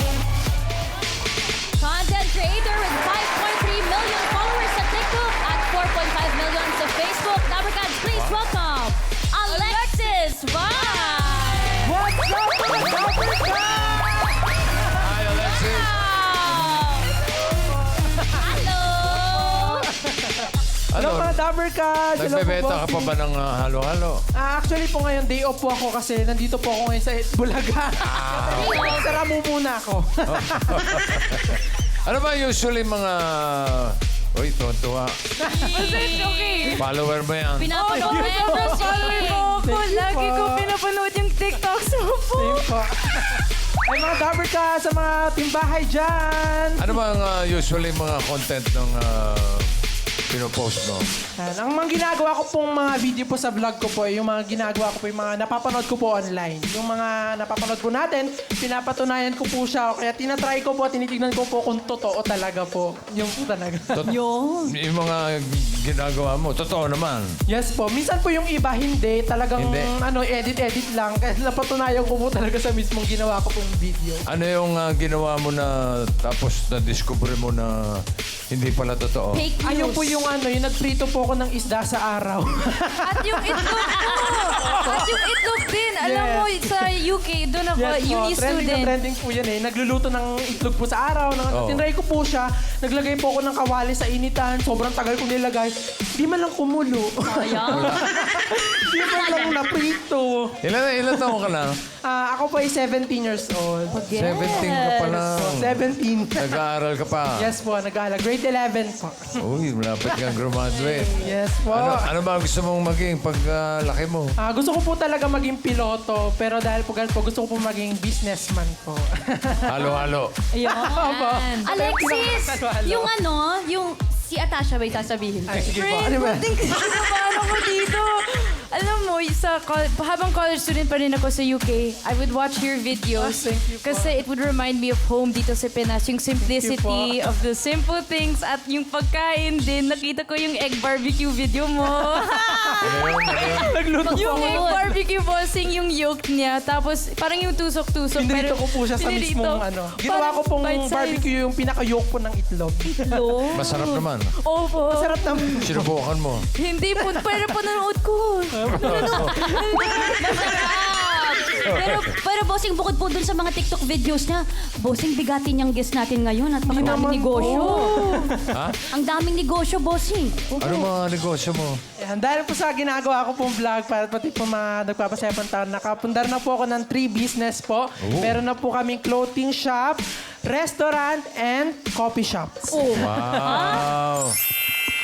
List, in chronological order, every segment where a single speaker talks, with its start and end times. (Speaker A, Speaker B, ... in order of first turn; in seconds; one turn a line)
Speaker A: 1.8-12.0
Speaker B: 8.1-8.4
Speaker C: 9.5-10.0
Speaker D: 11.8-14.8
Speaker B: 14.9-15.9
Speaker A: 15.4-17.1
Speaker D: 18.0-18.5
Speaker A: 18.3-19.9
Speaker D: 19.4-23.1
Speaker B: 20.9-21.4
Speaker B: 22.2-24.2
Speaker D: 24.4-31.1
Speaker B: 28.0-29.1
Speaker A: 28.4-29.2
Speaker B: 30.3-35.2
Speaker A: 35.4-36.8
Speaker D: 35.4-36.8
Speaker C: 35.8-36.9
Speaker B: 36.8-37.7
Speaker A: 37.6-39.6
Speaker D: 37.8-40.7
Speaker C: 37.8-42.7
Speaker D: 42.4-46.9
Speaker B: 46.8-49.7
Speaker B: 50.3-51.1
Speaker D: 51.4-64.1
Speaker B: 63.9-67.3
Speaker A: 64.0-64.7
Speaker D: 67.5-74.2
Speaker B: 69.6-69.9
Speaker B: 74.3-79.5
Speaker A: 79.3-79.6
Speaker C: 79.5-80.2
Speaker D: 79.6-85.3
Speaker C: 83.0-89.0
Speaker D: 86.0-86.9
Speaker D: 87.8-100.6
Speaker B: 91.5-91.8
Speaker A: 97.3-98.0
Speaker B: 97.7-98.0
Speaker A: 99.0-99.6
Speaker B: 100.6-101.8
Speaker D: 102.0-106.6
Speaker A: 103.9-105.1
Speaker B: 104.1-105.8
Speaker B: 106.3-107.5
Speaker D: 107.4-109.4
Speaker B: 109.4-114.3
Speaker A: 110.9-111.1
Speaker D: 111.2-112.1
Speaker D: 114.4-120.1
Speaker B: 119.7-120.3
Speaker A: 120.5-125.7
Speaker D: 120.6-123.1
Speaker C: 121.1-121.7
Speaker D: 125.5-126.9
Speaker C: 125.6-142.4
Speaker A: 126.5-126.7
Speaker D: 133.1-134.2
Speaker D: 136.4-137.2
Speaker D: 142.0-144.9
Speaker A: 142.4-143.1
Speaker B: 142.8-143.8
Speaker A: 144.1-144.8
Speaker C: 144.1-151.3
Speaker D: 148.2-153.2
Speaker A: 152.8-154.1
Speaker B: 153.5-154.3
Speaker C: 154.4-155.3
Speaker D: 154.9-155.9
Speaker B: 155.6-156.5
Speaker C: 156.6-161.0
Speaker D: 157.0-157.5
Speaker D: 158.6-160.6
Speaker B: 158.7-159.5
Speaker A: 158.9-168.3
Speaker B: 161.6-162.2
Speaker D: 166.7-168.6
Speaker B: 166.7-167.1
Speaker C: 167.7-168.2
Speaker B: 168.5-168.8
Speaker A: 168.9-170.6
Speaker D: 170.6-170.9
Speaker B: 170.6-171.8
Speaker D: 172.0-183.4
Speaker B: 178.0-178.4
Speaker C: 182.7-183.1
Speaker B: 182.9-184.4
Speaker A: 183.4-183.9